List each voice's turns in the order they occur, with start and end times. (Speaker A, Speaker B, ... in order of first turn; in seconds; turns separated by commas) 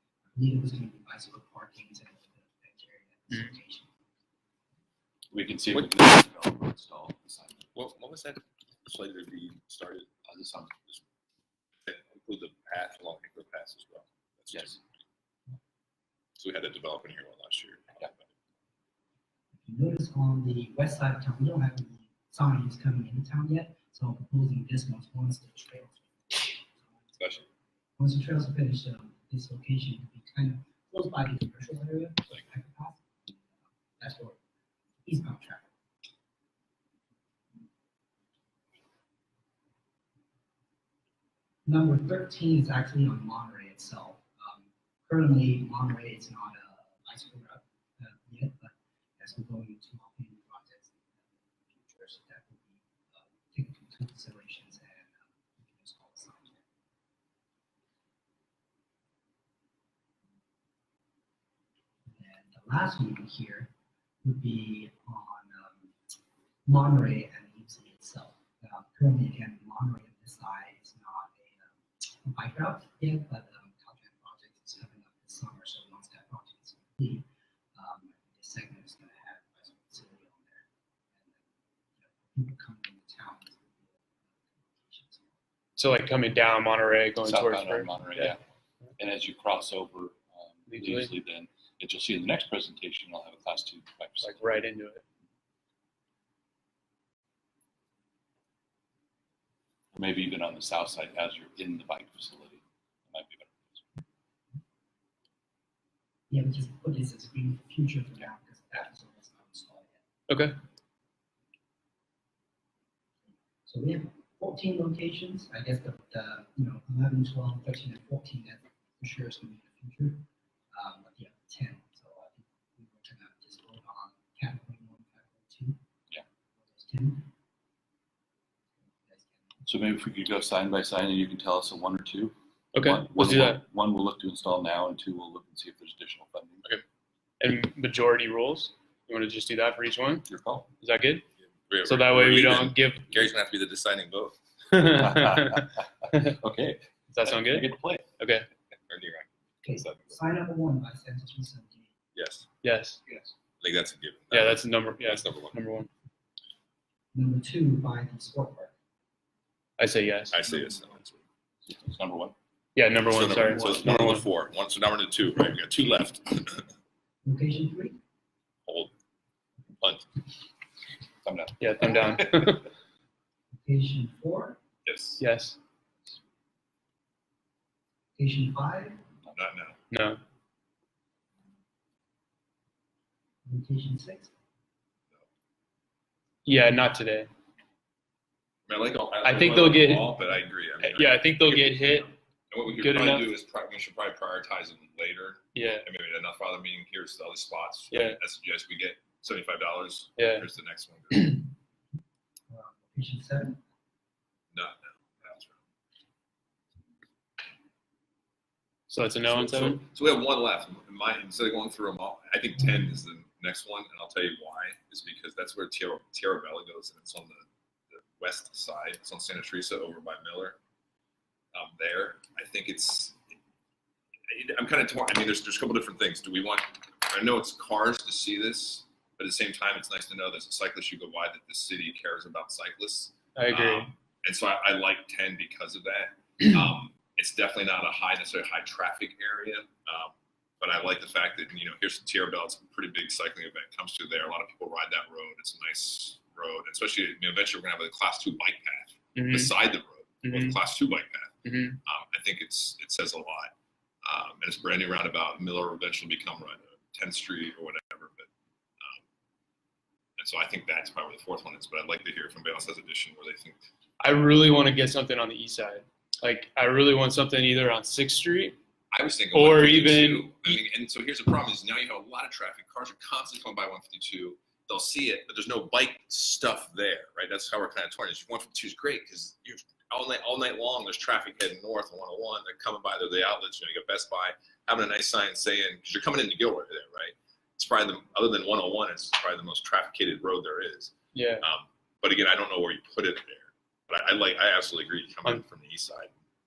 Speaker A: 0.3-3.9, Speaker B: 5.3-7.7, Speaker C: 7.7-10.1, Speaker B: 10.3-10.7, Speaker C: 11.8-14.8, Speaker B: 14.5-14.8, Speaker C: 16.4-18.3, Speaker A: 19.6-27.2, Speaker C: 27.2-27.4, Speaker A: 28.0-33.4, Speaker A: 34.0-34.4, Speaker A: 35.0-35.7, Speaker A: 41.6-51.0, Speaker A: 51.6-56.6, Speaker A: 62.1-63.7, Speaker A: 64.2-65.9, Speaker A: 66.7-80.7, Speaker A: 82.2-83.9, Speaker A: 84.5-85.3, Speaker D: 85.8-88.4, Speaker B: 87.2-88.4, Speaker B: 89.0-94.7, Speaker D: 90.7-91.1, Speaker D: 94.2-95.0, Speaker B: 99.9-103.8, Speaker A: 106.3-110.0, Speaker D: 110.3-110.5, Speaker A: 113.7-125.8, Speaker A: 126.7-127.3, Speaker A: 129.1-129.4, Speaker B: 129.7-136.6, Speaker D: 132.7-133.6, Speaker D: 137.4-140.2, Speaker B: 140.2-140.7, Speaker D: 140.8-141.2, Speaker C: 141.7-144.4, Speaker D: 141.8-143.1, Speaker D: 144.7-146.3, Speaker B: 144.9-148.1, Speaker D: 147.1-148.5, Speaker C: 148.9-150.2, Speaker A: 149.6-151.9, Speaker C: 152.1-152.5, Speaker D: 152.6-153.0, Speaker C: 153.6-155.6, Speaker D: 154.3-155.9, Speaker A: 157.1-158.7, Speaker D: 159.8-160.4, Speaker C: 160.3-161.2, Speaker B: 161.7-162.3, Speaker D: 162.8-164.2, Speaker C: 163.1-166.7, Speaker A: 167.2-168.0, Speaker C: 169.8-170.1, Speaker B: 171.2-171.9, Speaker D: 171.6-172.7, Speaker A: 173.6-174.6, Speaker C: 174.8-175.2, Speaker D: 175.2-175.6, Speaker A: 178.2-179.0, Speaker C: 179.3-179.8, Speaker D: 179.9-180.2, Speaker A: 183.4-184.3, Speaker D: 186.4-187.3, Speaker C: 188.7-201.5, Speaker D: 189.2-190.2, Speaker D: 190.8-192.1, Speaker D: 192.8-193.3, Speaker D: 195.5-195.8, Speaker D: 197.9-198.2, Speaker D: 200.2-200.4, Speaker A: 202.5-203.6, Speaker C: 204.5-205.6, Speaker D: 208.9-209.8, Speaker C: 209.2-220.6, Speaker C: 221.5-223.2, Speaker C: 224.3-251.3, Speaker D: 233.3-233.9, Speaker D: 249.1-249.5, Speaker D: 250.2-250.6, Speaker D: 251.4-251.8, Speaker C: 251.8-258.3, Speaker C: 260.2-263.6, Speaker D: 264.0-268.6, Speaker C: 268.9-296.1, Speaker D: 269.3-270.6, Speaker D: 291.1-291.4